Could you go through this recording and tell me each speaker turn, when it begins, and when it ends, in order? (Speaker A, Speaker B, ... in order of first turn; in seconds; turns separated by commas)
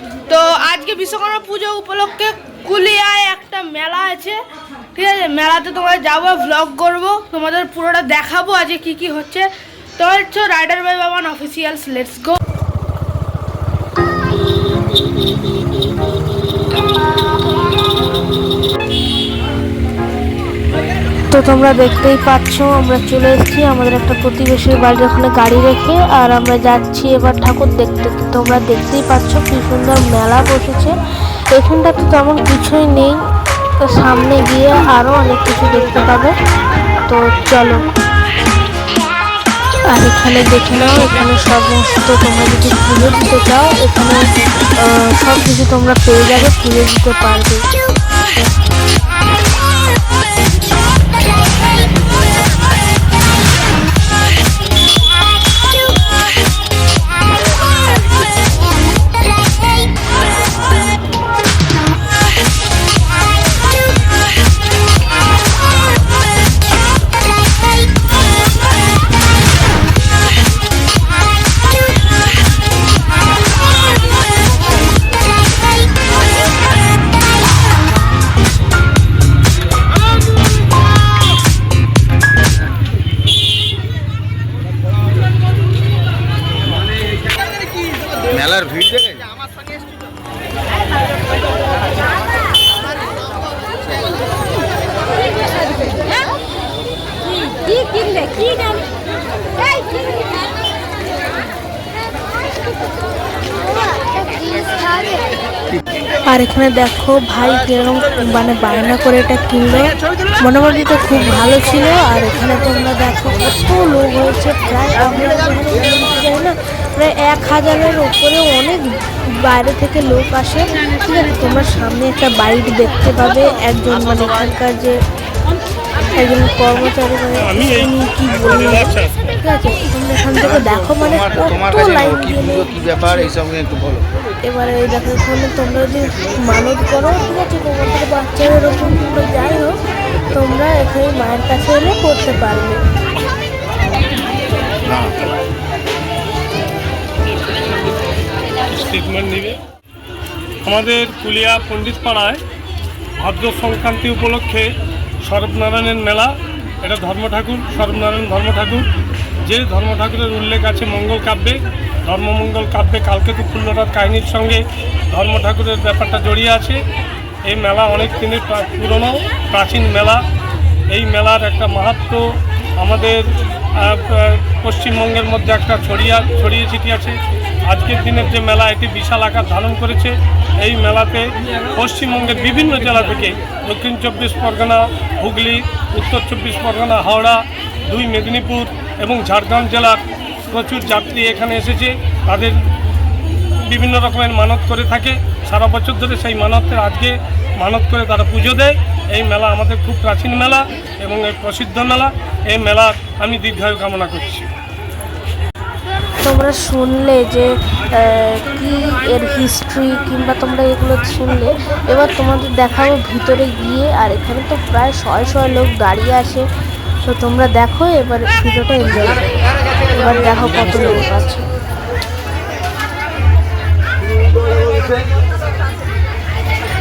Speaker A: 0.2-4.4, Speaker A: 4.9-12.4, Speaker A: 21.3-30.9, Speaker A: 31.5-33.2, Speaker A: 33.8-36.4, Speaker A: 37.0-37.8, Speaker A: 39.9-44.2, Speaker A: 44.8-47.6, Speaker B: 88.2-89.2, Speaker A: 106.3-125.0, Speaker A: 126.2-133.3, Speaker C: 127.4-129.2, Speaker B: 130.6-134.0, Speaker A: 134.4-139.8, Speaker A: 140.3-142.8, Speaker B: 144.8-145.2, Speaker C: 148.7-149.6, Speaker C: 150.6-152.4, Speaker C: 153.2-154.7, Speaker C: 155.2-156.3, Speaker C: 156.8-158.9, Speaker C: 159.4-166.8, Speaker C: 167.5-170.2, Speaker C: 170.9-172.2, Speaker C: 172.8-173.2, Speaker C: 173.8-192.6, Speaker C: 193.6-204.5, Speaker A: 206.2-216.4, Speaker A: 217.0-219.4, Speaker A: 219.9-221.4